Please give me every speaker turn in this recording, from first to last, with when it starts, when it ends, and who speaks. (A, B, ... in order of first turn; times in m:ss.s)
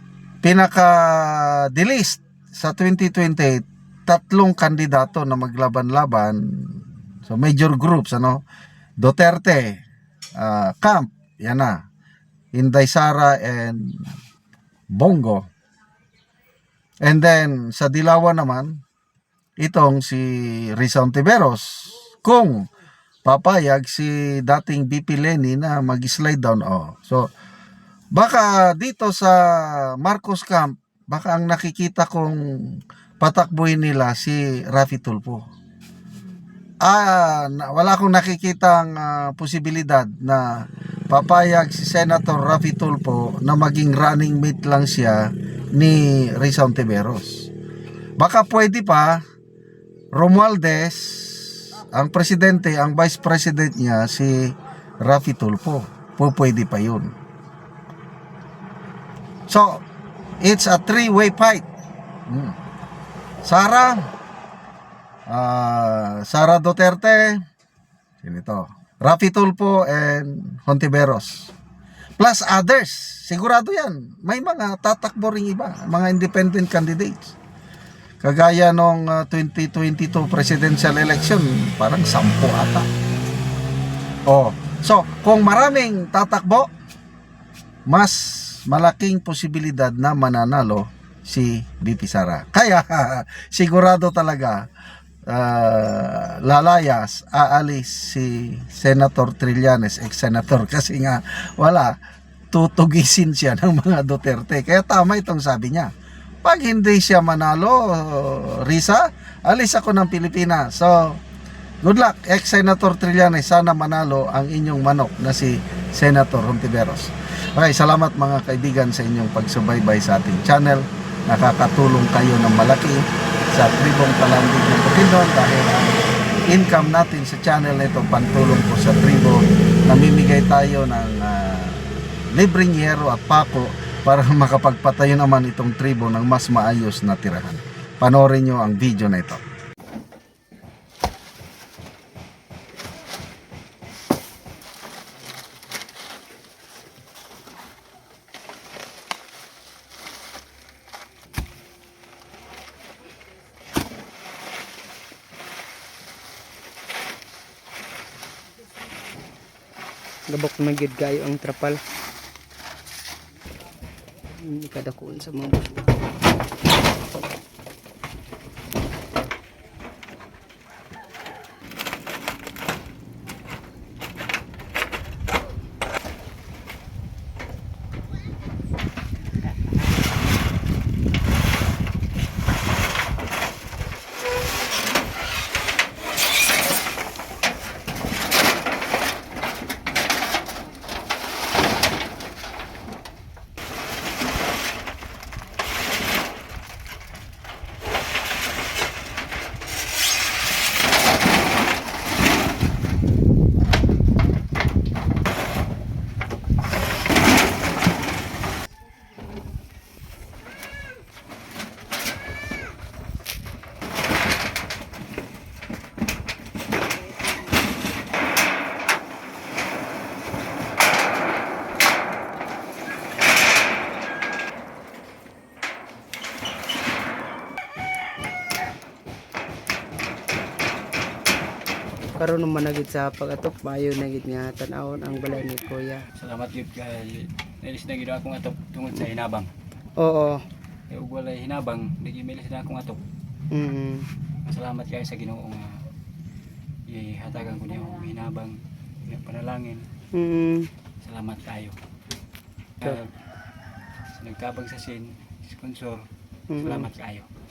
0:00.4-0:08.4 A
0:09.0-0:09.8 A
0:10.4-0:11.8 A
0:12.5-0:14.1 A
0:14.9-0:15.5 A
0:17.0-0:18.8 A
0:19.6-0:22.7 A
0:23.2-0:27.3 A
0:28.1-0:35.4 A
0:36.8-0:47.5 A
0:48.2-0:49.2 A
0:50.1-0:57.1 A
0:59.5-0:59.8 A
1:00.4-1:01.7 A
1:02.3-1:02.6 A
1:03.4-1:04.1 A
1:05.3-1:07.4 A
1:08.2-1:11.5 A
1:12.2-1:17.4 A
1:18.2-1:22.9 A
1:24.3-1:26.7 A
1:27.9-1:34.6 A
1:35.3-1:42.0 A
1:42.5-1:45.9 A
1:46.4-1:51.2 A
1:51.8-2:19.4 A
2:40.3-2:41.8 B
2:44.4-2:45.7 B
3:52.2-3:56.0 B
3:56.2-3:59.5 C
4:00.0-4:00.4 B
4:00.9-4:03.0 C
4:03.5-4:04.1 B
4:04.5-4:05.7 C
4:06.9-4:09.9 C
4:10.1-4:10.7 B
4:11.0-4:11.8 C
4:12.8-4:13.1 C
4:14.2-4:16.0 C
4:16.5-4:16.9 B
4:16.6-4:17.3 C